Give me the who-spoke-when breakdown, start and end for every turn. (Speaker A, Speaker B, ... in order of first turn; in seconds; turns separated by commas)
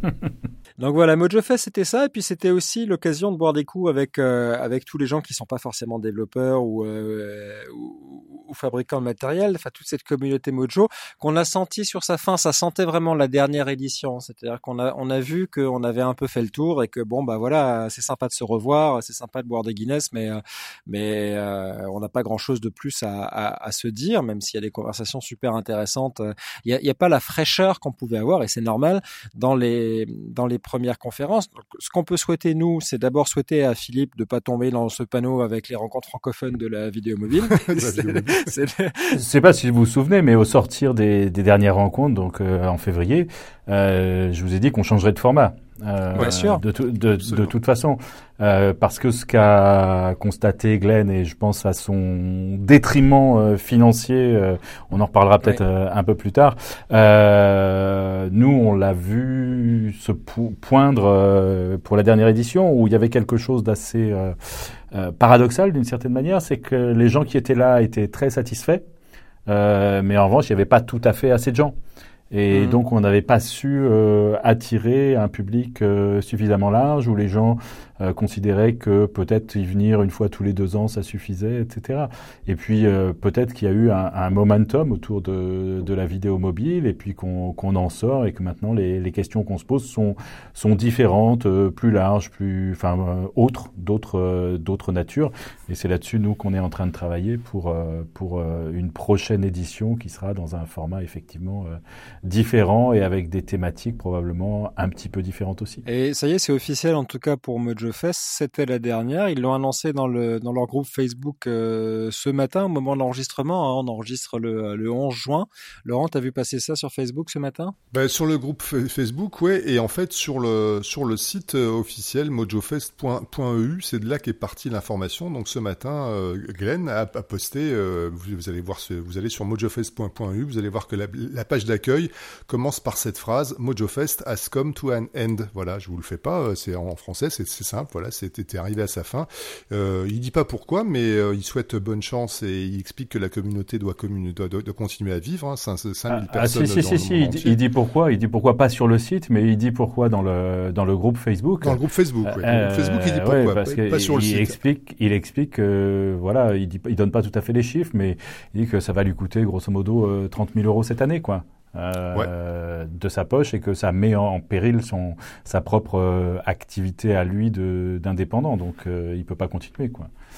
Speaker A: 0.8-39.2, Speaker B: 37.6-38.5, Speaker C: 39.1-68.8, Speaker A: 46.2-46.6, Speaker C: 69.5-71.7, Speaker C: 72.3-105.8, Speaker A: 72.5-72.8, Speaker A: 105.8-117.7, Speaker B: 117.9-147.6, Speaker C: 146.1-170.1, Speaker B: 151.6-154.6